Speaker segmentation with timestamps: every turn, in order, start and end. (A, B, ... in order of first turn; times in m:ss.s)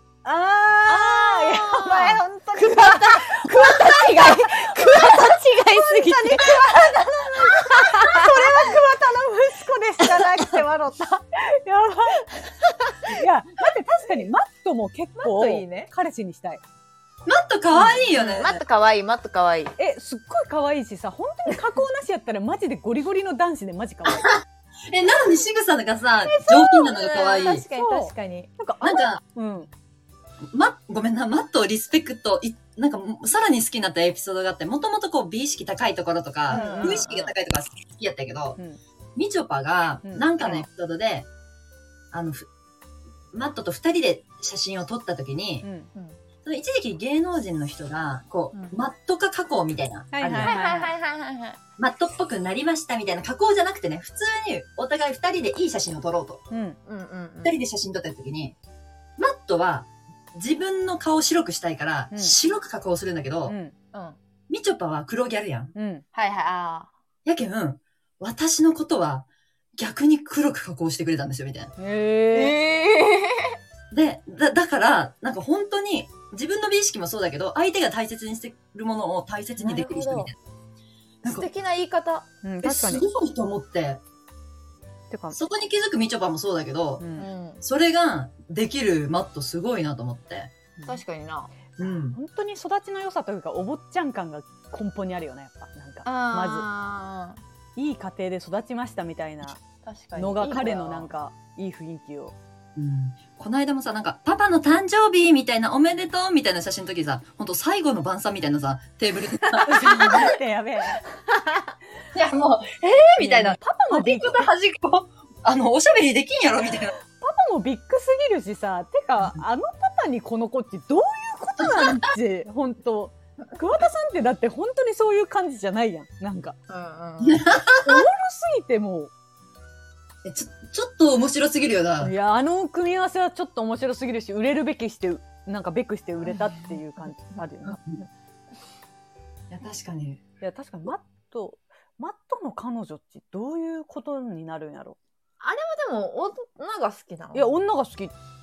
0:00.2-0:12.3 A
0:00.9-0:08.6 B
0:13.0-0:16.6 A
0:15.2-0:15.9 B
0:17.3-0:18.6 C
0:17.8-0:19.8 B
0:17.8-0:18.5 A
0:19.8-0:24.3 A
0:24.9-0:27.6 C
0:26.3-0:28.5 B
0:27.8-0:29.7 A
0:28.8-0:29.2 C
0:30.5-0:38.6 C
0:36.5-0:37.2 A
0:36.5-0:37.3 B
0:39.2-0:41.3 C
0:40.0-0:40.3 A
0:42.1-0:42.5 C
0:43.3-0:45.7 C
0:45.6-0:45.9 A
0:46.4-0:50.6 C
0:50.1-0:50.9 A
0:50.4-0:51.6 B
0:51.8-0:56.4 C
0:56.5-0:56.8 A
0:56.9-0:57.6 B
0:57.4-0:58.6 C
0:59.2-1:03.6 C
1:03.5-1:03.7 A
1:04.5-1:05.7 C
1:05.8-1:06.0 A
1:06.1-1:06.9 B
1:07.2-1:11.7 C
1:11.8-1:12.6 A
1:12.3-1:13.6 B
1:13.9-1:20.4 C
1:19.6-1:20.3 B
1:21.2-1:22.3 B
1:22.4-1:23.0 A
1:22.6-1:24.0 C
1:25.1-1:25.4 A
1:25.3-1:27.0 C
1:27.0-1:27.3 A
1:27.2-1:27.6 B
1:27.6-1:30.5 C
1:30.9-1:31.5 B
1:31.8-1:32.2 C
1:31.8-1:36.7 A
1:36.0-1:37.4 B
1:37.8-1:39.6 A
1:39.8-1:41.1 B
1:40.2-1:42.4 A
1:42.8-1:50.3 C
1:49.6-1:50.3 B
1:49.6-1:51.0 A
1:51.3-1:51.7 B
1:52.1-1:57.0 C
1:53.2-1:54.5 A
1:57.2-2:06.6 A
2:06.7-2:07.4 B
2:07.2-2:08.1 C
2:07.8-2:09.1 A
2:10.2-2:12.1 C
2:12.0-2:17.8 A
2:19.5-2:20.2 C
2:20.4-2:25.0 A
2:25.4-2:27.6 B
2:27.3-2:28.1 A